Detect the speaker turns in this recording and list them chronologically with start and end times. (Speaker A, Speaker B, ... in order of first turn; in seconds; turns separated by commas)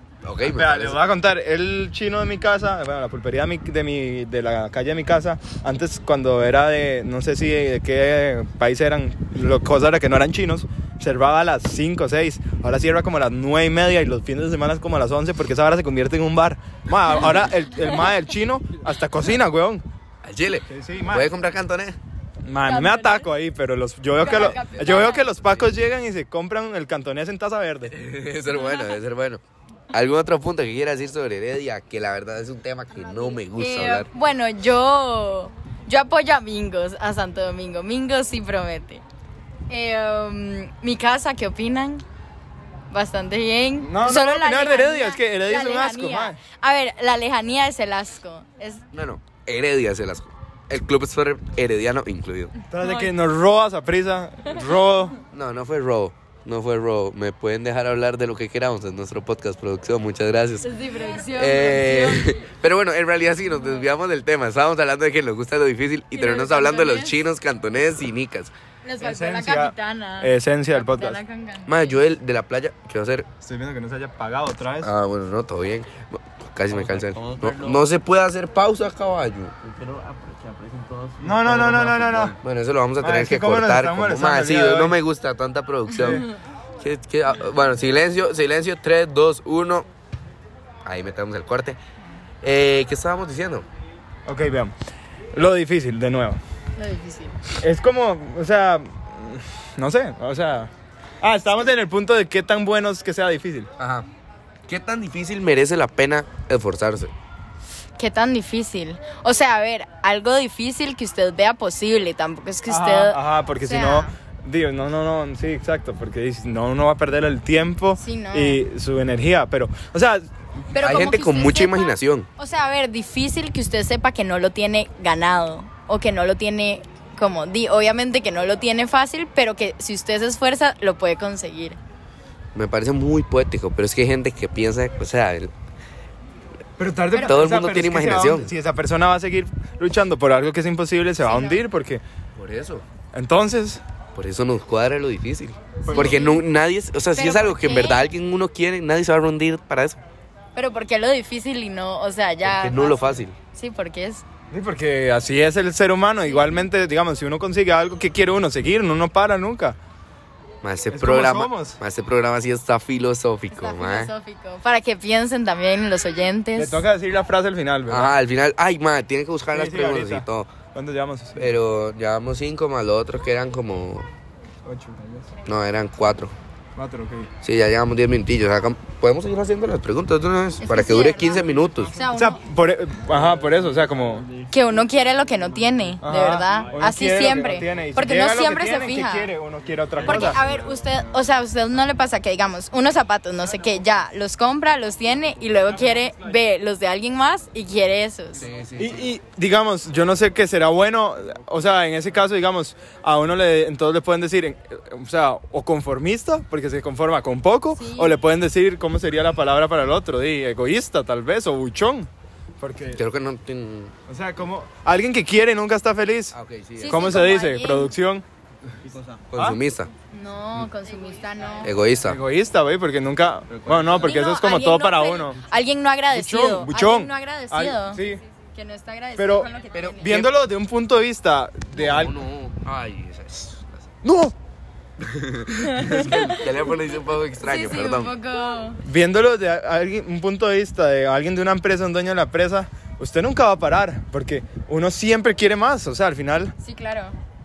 Speaker A: 0.2-1.0, Speaker B: 0.4-19.8, Speaker A: 20.2-22.0, Speaker B: 20.7-21.3, Speaker B: 22.4-27.9, Speaker C: 22.6-23.3, Speaker C: 24.2-25.3, Speaker A: 27.9-34.1, Speaker C: 28.5-28.9, Speaker C: 33.6-39.0, Speaker C: 39.7-42.0, Speaker C: 42.9-48.8, Speaker B: 43.8-46.4, Speaker A: 48.9-52.5, Speaker B: 52.7-55.1, Speaker C: 52.8-53.1, Speaker A: 55.3-60.7, Speaker C: 60.6-62.4, Speaker A: 61.3-68.5, Speaker C: 66.1-67.2, Speaker C: 68.8-72.0, Speaker B: 69.0-71.2, Speaker A: 71.7-73.3, Speaker B: 73.4-74.9, Speaker A: 74.8-79.5, Speaker D: 76.7-77.9, Speaker D: 79.6-82.3, Speaker B: 81.2-82.3, Speaker A: 82.4-89.9, Speaker B: 83.0-85.0, Speaker A: 90.8-91.8, Speaker A: 92.4-93.7, Speaker B: 94.3-94.7, Speaker B: 95.3-96.4, Speaker C: 96.8-97.4, Speaker B: 97.5-103.7, Speaker A: 103.8-104.1, Speaker A: 104.7-107.1, Speaker C: 108.0-114.1, Speaker B: 112.7-120.3, Speaker C: 118.0-118.6, Speaker C: 120.7-131.8, Speaker A: 120.7-122.3, Speaker A: 132.5-135.5, Speaker B: 136.8-142.0, Speaker A: 137.2-138.5, Speaker C: 141.2-141.6, Speaker A: 142.3-142.8, Speaker B: 143.1-143.8, Speaker A: 144.1-150.0, Speaker B: 145.8-146.2, Speaker C: 145.9-146.4, Speaker C: 147.1-148.1, Speaker C: 150.5-154.2, Speaker A: 152.4-153.3, Speaker B: 154.5-159.8, Speaker C: 156.3-156.6, Speaker A: 160.6-164.1, Speaker B: 160.9-161.8, Speaker C: 163.5-166.8, Speaker B: 166.6-168.1, Speaker A: 167.9-170.5, Speaker B: 169.5-171.6, Speaker A: 171.4-174.1, Speaker B: 174.6-175.3, Speaker A: 175.4-176.3, Speaker B: 176.8-177.3, Speaker A: 177.4-181.9, Speaker C: 180.6-182.4, Speaker B: 182.1-184.4, Speaker C: 184.5-189.3, Speaker B: 186.0-190.4, Speaker C: 190.0-198.5, Speaker A: 198.3-199.1, Speaker B: 198.8-213.0, Speaker C: 207.7-208.2, Speaker A: 212.9-213.9, Speaker B: 214.1-216.3, Speaker A: 216.3-217.3, Speaker C: 216.8-217.9, Speaker B: 216.9-218.2, Speaker D: 218.7-219.2, Speaker A: 219.3-219.9, Speaker C: 220.1-221.7, Speaker A: 221.6-222.2, Speaker B: 222.0-225.4, Speaker D: 223.5-224.2, Speaker C: 224.0-228.0, Speaker B: 226.1-228.2, Speaker C: 228.5-230.2, Speaker B: 229.2-229.5, Speaker A: 229.7-230.3, Speaker B: 230.0-232.1, Speaker A: 231.7-233.9, Speaker B: 234.0-234.3, Speaker A: 235.0-238.1, Speaker C: 235.7-236.4, Speaker C: 237.4-238.8, Speaker B: 238.8-246.5, Speaker C: 246.6-247.2